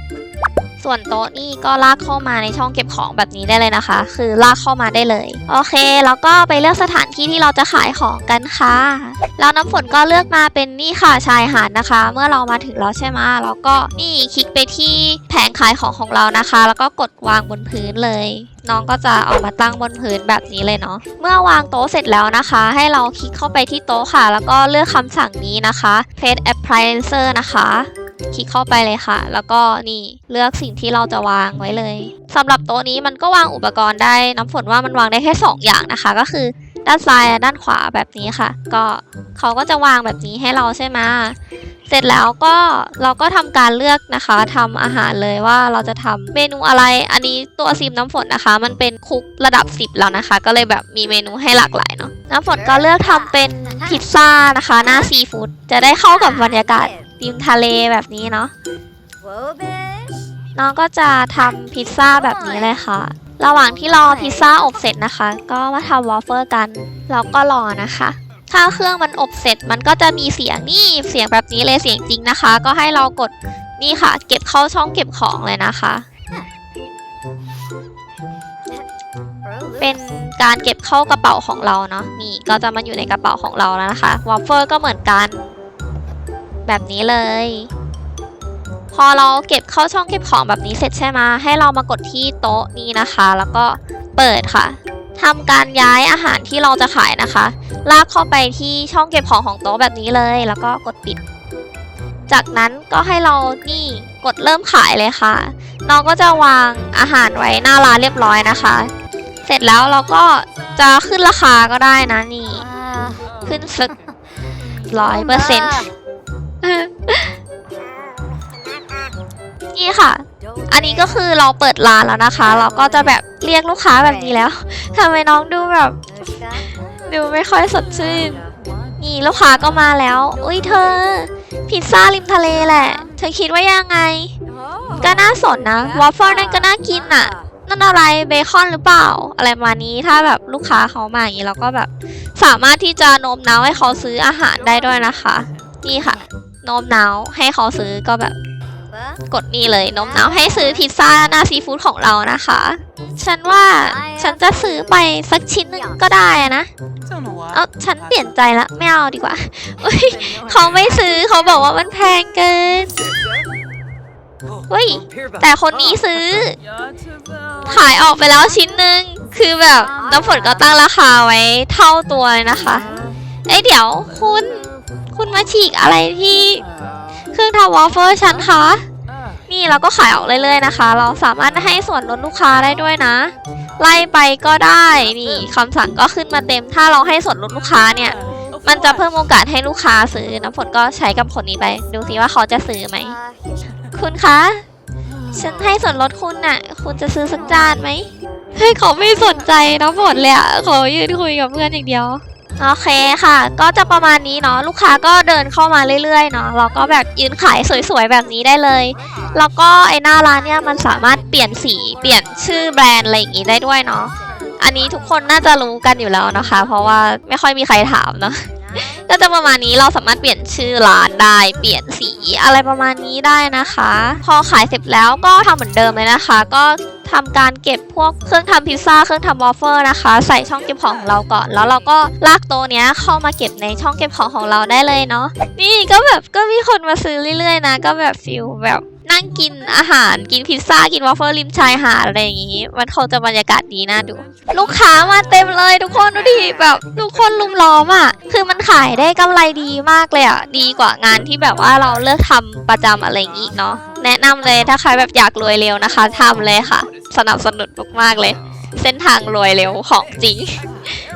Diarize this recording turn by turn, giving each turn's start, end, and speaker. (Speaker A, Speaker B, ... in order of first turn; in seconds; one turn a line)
Speaker A: 0.8-41.4
Speaker A: 41.9-58.5
Speaker B: 52.8-53.3
Speaker B: 56.1-57.0
Speaker B: 59.2-60.3
Speaker A: 60.5-76.0
Speaker B: 64.0-64.4
Speaker B: 79.5-79.9
Speaker A: 79.8-85.4
Speaker A: 86.7-87.7
Speaker A: 88.9-101.2
Speaker A: 102.3-108.9
Speaker A: 109.5-112.7
Speaker B: 112.7-113.2
Speaker A: 113.5-114.0
Speaker A: 114.8-115.9
Speaker B: 115.3-115.9
Speaker A: 116.6-117.3
Speaker A: 119.7-126.0
Speaker B: 126.2-126.7
Speaker A: 127.1-128.4
Speaker A: 129.0-134.3
Speaker A: 135.0-148.3
Speaker B: 148.9-149.2
Speaker A: 149.3-156.7
Speaker B: 153.8-154.5
Speaker A: 157.5-162.9
Speaker A: 164.7-166.6
Speaker A: 167.6-172.9
Speaker A: 173.5-176.7
Speaker A: 177.3-178.8
Speaker A: 179.5-193.1
Speaker B: 193.2-193.7
Speaker A: 193.9-194.6
Speaker A: 195.3-260.7